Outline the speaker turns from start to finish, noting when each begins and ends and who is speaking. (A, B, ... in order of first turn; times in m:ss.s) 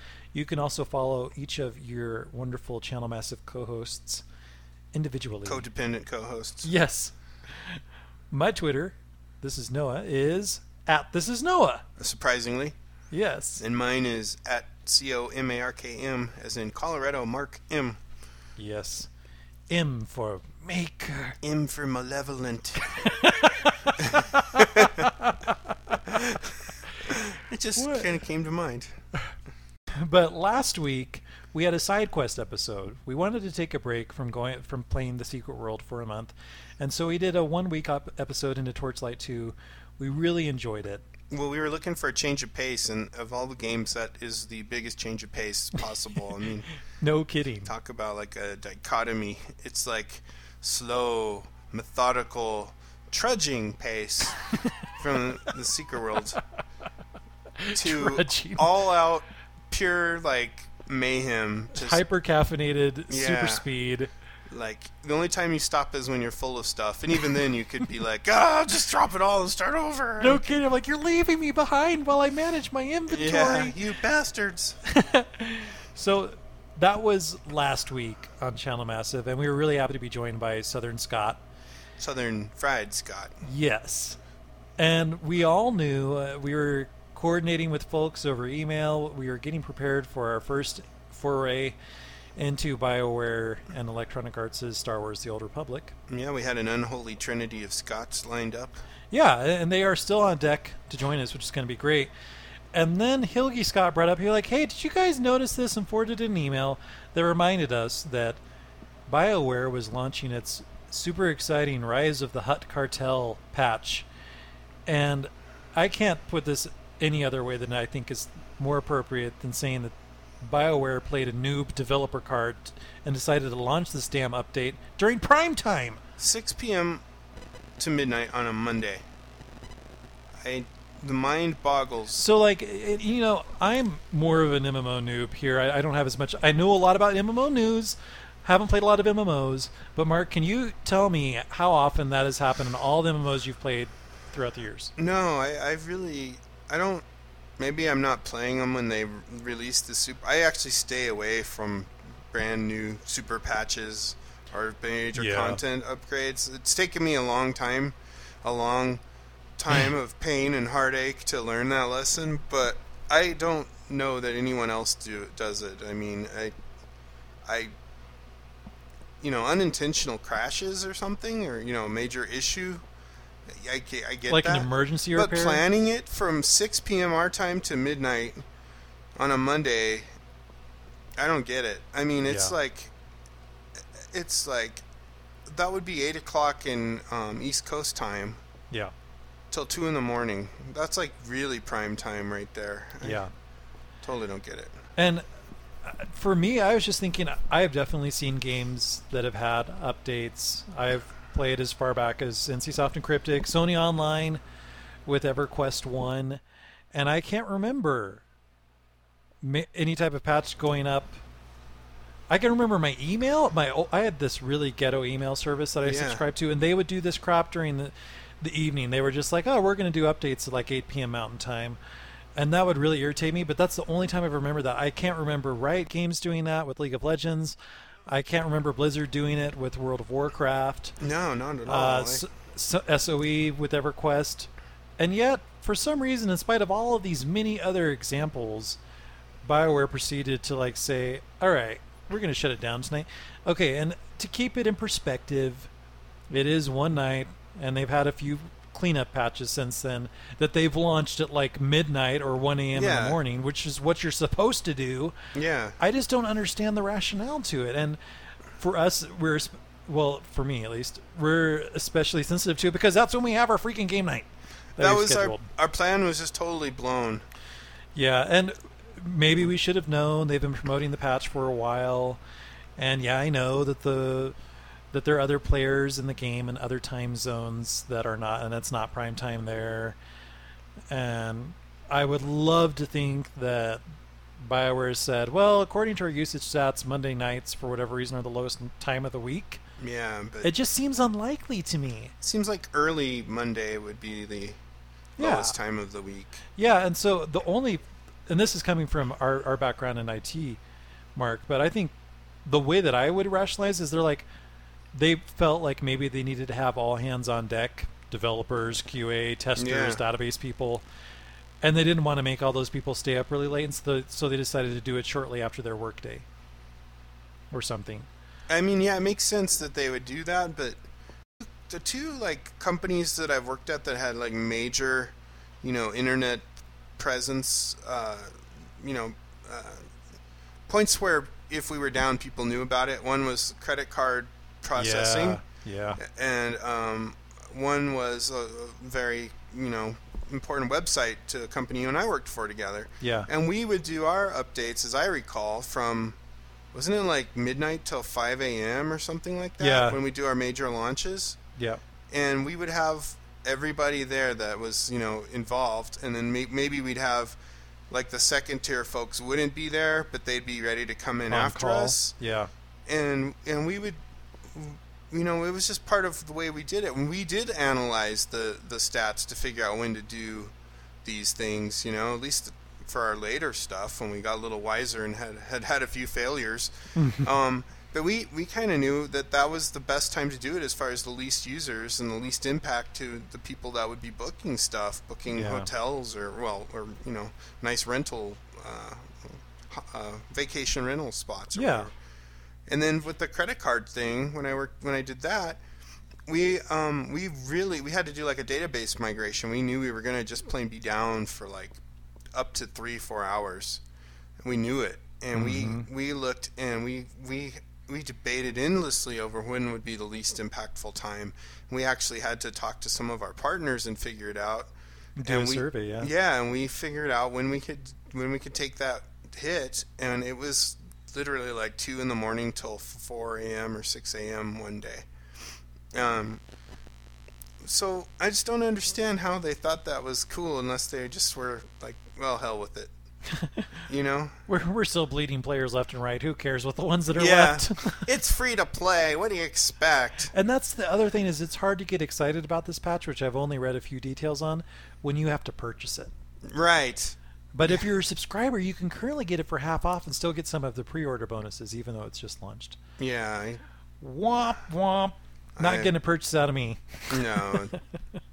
0:00.3-0:04.2 A
0:04.9-0:05.6 A
0:05.4-0:06.7 B
0:06.6-0:11.8 A
0:12.0-0:12.7 B
0:13.1-0:13.6 A
0:13.6-0:18.0 B
0:18.6-0:19.1 A
0:19.7-0:21.4 A
0:21.4-0:23.1 B
0:23.0-0:26.0 A
0:24.0-0:25.1 B
0:26.1-0:29.0 B
0:27.8-0:28.1 A
0:29.9-0:41.0 A
0:41.3-0:46.6 B
0:47.0-0:47.7 A
0:47.6-0:56.4 B
0:57.6-0:58.7 A
0:57.7-1:02.0 B
1:01.7-1:04.1 A
1:03.1-1:03.6 B
1:04.5-1:10.4 B
1:10.2-1:13.8 A
1:13.1-1:14.8 B
1:14.8-1:21.4 A
1:22.0-1:23.4 B
1:23.4-1:24.2 A
1:24.8-1:31.8 A
1:32.4-1:35.9 A
1:36.1-1:38.8 B
1:39.1-1:42.1 A
1:42.7-1:48.4 A
1:49.1-1:54.1 A
1:54.9-2:06.0 A
2:06.2-2:07.0 B
2:07.8-2:09.0 B
2:10.4-2:12.2 B
2:12.1-2:24.9 A
2:25.0-2:27.0 B
2:27.6-2:39.0 B
2:35.1-2:35.6 A
2:39.6-2:46.5 B
2:47.4-2:47.7 B
2:49.2-2:52.8 B
2:53.4-2:58.4 B
2:54.3-2:55.6 A
2:59.2-3:00.1 B
3:01.2-3:02.9 B
3:02.2-3:02.5 A
3:04.0-3:04.8 B
3:05.4-3:08.4 B
3:09.5-3:13.2 B
3:13.0-3:13.3 A
3:14.0-3:14.8 B
3:15.0-3:15.2 A
3:15.8-3:24.4 A
3:25.0-3:26.4 A
3:26.9-3:28.2 A
3:29.4-3:31.2 A
3:32.3-3:41.8 A
3:35.8-3:36.2 B
3:42.4-3:47.6 A
3:48.1-3:51.0 A
3:51.0-3:52.2 B
3:51.6-3:58.8 A
3:59.4-4:05.7 A
4:06.3-4:15.1 A
4:12.7-4:13.2 B
4:15.3-4:15.8 B
4:15.8-4:18.0 A
4:18.6-4:25.5 A
4:24.8-4:27.2 B
4:27.9-4:32.2 A
4:32.8-4:34.3 A
4:34.9-4:40.0 A
4:40.9-4:43.8 A
4:44.4-4:49.6 A
4:49.8-4:50.5 B
4:50.4-4:52.1 A
4:52.2-4:54.6 B
4:55.2-4:55.6 A
4:55.2-4:56.4 B
4:56.6-5:00.6 A
5:01.1-5:01.9 A
5:02.4-5:04.3 A
5:04.9-5:10.8 A
5:09.6-5:10.0 B
5:11.6-5:16.2 A
5:17.5-5:18.1 A
5:18.5-5:20.8 B
5:21.4-5:26.4 B
5:27.0-5:29.9 B
5:30.7-5:35.4 B
5:34.7-5:36.0 A
5:36.0-5:46.2 B
5:43.0-5:43.3 A
5:46.7-5:51.4 B
5:49.6-5:50.0 A
5:51.6-5:51.8 A
5:52.1-5:57.4 B
5:57.9-6:02.1 B
6:01.3-6:02.5 A
6:02.9-6:10.5 B
6:11.0-6:31.9 B
6:17.0-6:17.3 A
6:25.3-6:25.7 A
6:31.5-6:31.9 A
6:32.7-6:35.6 B
6:36.2-6:41.8 B
6:42.3-6:43.8 B
6:44.4-6:54.7 B
6:45.3-6:45.9 A
6:55.2-6:56.1 A
6:55.2-7:05.1 B
7:05.9-7:06.4 B
7:07.6-7:12.9 B
7:13.3-7:13.7 A
7:13.9-7:14.4 B
7:14.5-7:18.1 A
7:17.1-7:20.3 B
7:20.3-7:26.1 A
7:26.4-7:27.8 B
7:27.5-7:32.8 A
7:33.0-7:33.6 B
7:34.0-7:37.8 A
7:35.6-7:35.9 B
7:37.1-7:37.8 B